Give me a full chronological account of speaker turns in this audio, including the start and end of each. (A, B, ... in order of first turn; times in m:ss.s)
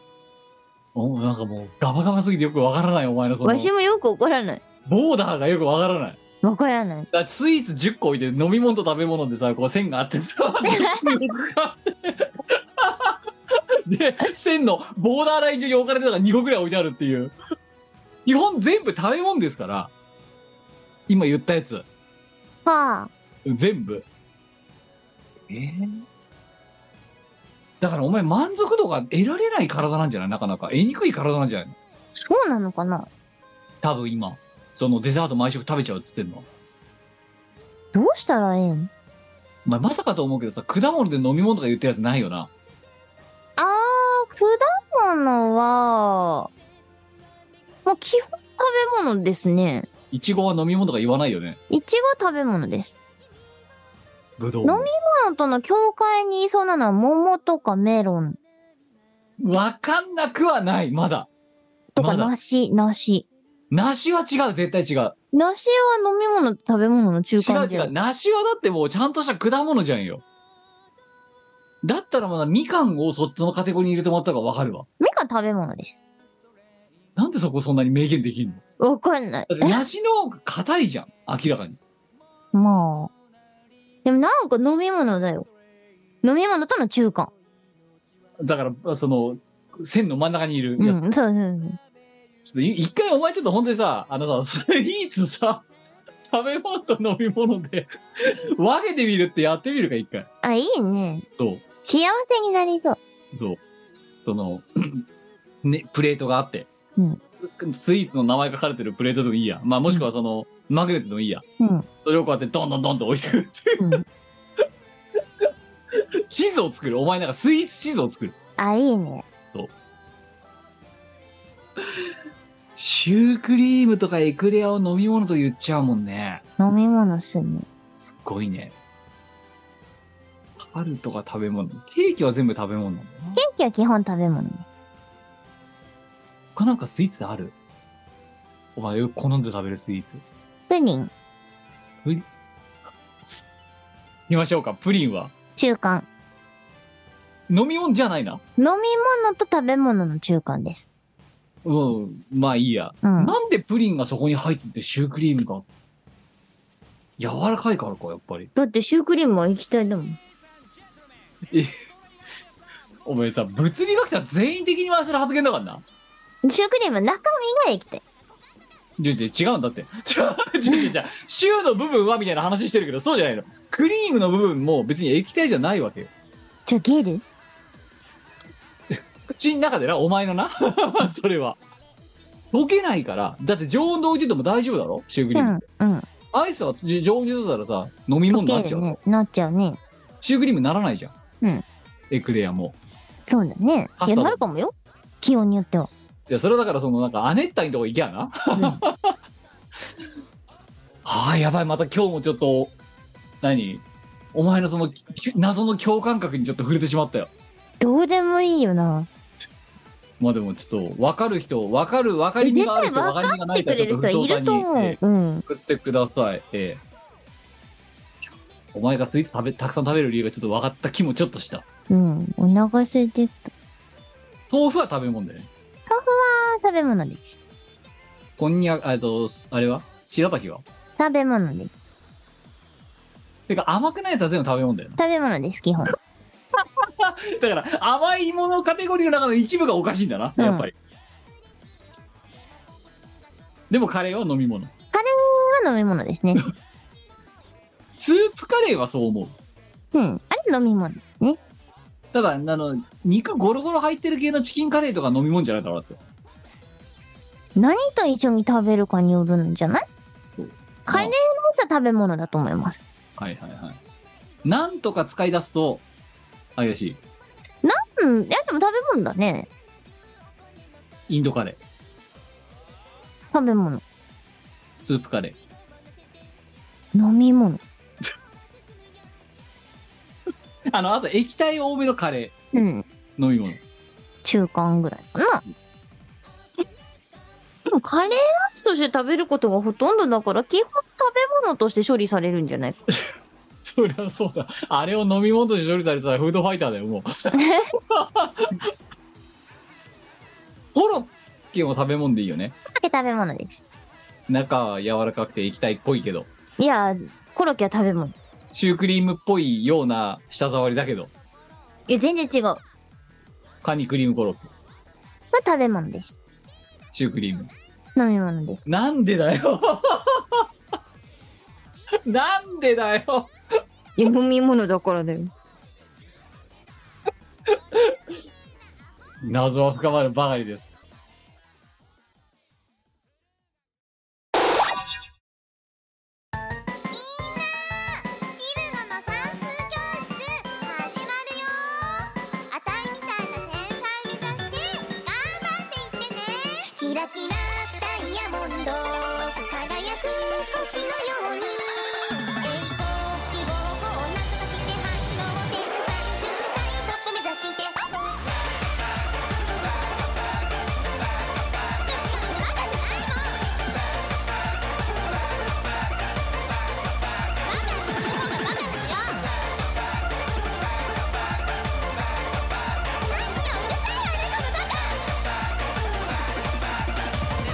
0:01.0-0:03.7 A
0:03.4-0:04.6 B
0:04.9-0:06.2 A
0:06.4-0:07.1 B
0:07.1-0:17.3 A
0:10.6-0:11.2 B
0:18.3-0:19.9 A
0:21.1-0:21.9 A
0:22.7-0:23.1 B
0:23.4-0:24.1 A
0:25.5-0:26.0 A
0:27.8-0:31.8 A
0:32.2-0:33.1 B
0:33.8-0:36.5 A
0:37.9-0:38.9 B
0:39.6-0:42.5 A
0:43.6-0:46.5 B
0:47.8-0:49.9 B
0:50.1-0:51.6 A
0:51.7-0:53.0 B
0:54.4-0:54.9 A
0:54.6-0:58.4 B
0:59.4-1:01.3 A
1:02.0-1:03.3 B
1:02.0-1:02.3 A
1:03.7-1:05.2 A
1:05.3-1:07.9 B
1:07.4-1:10.2 A
1:11.8-1:14.9 A
1:15.0-1:16.0 B
1:17.2-1:18.6 A
1:18.8-1:19.8 B
1:19.5-1:21.8 A
1:22.5-1:23.1 B
1:24.0-1:25.5 B
1:26.2-1:27.3 B
1:28.4-1:31.0 A
1:30.8-1:31.8 B
1:32.4-1:35.7 A
1:36.3-1:40.3 A
1:40.4-1:41.3 B
1:41.4-1:41.6 A
1:41.8-1:43.0 B
1:43.3-1:43.6 A
1:44.2-1:45.1 A
1:45.6-1:46.7 A
1:47.3-1:51.4 A
1:51.6-1:51.9 B
1:52.0-1:54.0 A
1:53.8-1:54.0 B
1:55.4-1:58.4 A
1:58.6-1:59.3 B
2:01.8-2:02.1 A
2:02.8-2:06.4 A
2:06.6-2:07.7 B
2:07.9-2:08.7 A
2:10.6-2:13.4 A
2:13.4-2:14.7 B
2:16.6-2:17.6 A
2:18.8-2:20.2 A
2:20.7-2:21.1 B
2:24.3-2:25.3 A
2:25.6-2:26.1 B
2:27.5-2:28.4 A
2:28.6-2:30.9 B
2:31.6-2:35.6 A
2:33.0-2:33.4 B
2:37.2-2:38.5 A
2:38.6-2:40.2 B
2:43.0-2:45.8 A
2:46.4-2:48.0 B
2:49.0-2:56.1 A
2:56.7-2:57.2 B
2:58.9-3:01.6 A
3:02.5-3:05.6 A
3:05.4-3:06.1 B
3:06.3-3:09.0 A
3:08.3-3:09.8 B
3:10.2-3:11.1 A
3:12.1-3:12.8 A
3:13.3-3:15.9 B
3:14.0-3:14.4 A
3:16.3-3:19.2 A
3:21.0-3:22.7 A
3:23.4-3:27.3 A
3:27.8-3:29.1 B
3:30.2-3:36.8 A
3:32.4-3:35.4 B
3:38.7-3:41.6 A
3:41.9-3:43.5 B
3:44.5-3:45.5 A
3:45.9-3:47.4 B
3:48.4-3:50.6 A
3:51.0-3:51.7 B
3:53.5-3:55.0 A
3:55.0-3:56.0 B
3:56.6-4:00.7 A
4:00.4-4:00.7 B
4:03.7-4:04.7 A
4:04.9-4:06.4 B
4:08.0-4:09.4 A
4:09.9-4:11.4 B
4:12.1-4:16.0 A
4:17.6-4:19.8 B
4:20.3-4:21.1 A
4:20.9-4:22.9 B
4:23.2-4:23.8 A
4:24.4-4:25.8 A
4:26.6-4:27.0 A
4:27.6-4:29.5 B
4:31.1-4:31.6 A
4:33.3-4:33.8 B
4:34.8-4:35.4 A
4:36.9-4:37.6 B
4:40.7-4:42.3 A
4:42.5-4:42.9 B
4:43.2-4:43.6 A
4:44.2-4:45.4 B
4:47.7-4:52.8 B
4:53.6-4:57.1 A
4:57.3-4:57.7 B
4:57.9-4:58.7 A
5:00.7-5:02.6 A
5:02.7-5:03.6 B
5:04.3-5:06.3 A
5:06.6-5:08.2 B
5:08.5-5:11.1 A
5:11.9-5:12.6 B
5:13.6-5:14.5 A
5:15.3-5:16.2 B
5:16.9-5:17.5 A
5:18.0-5:18.6 B
5:18.7-5:20.5 A
5:22.1-5:23.3 A
5:24.0-5:25.3 B
5:27.5-5:28.2 A
5:29.2-5:30.7 A
5:36.9-5:58.2 C
6:01.8-6:03.6 C
6:07.4-6:09.3 C
6:13.1-6:15.2 C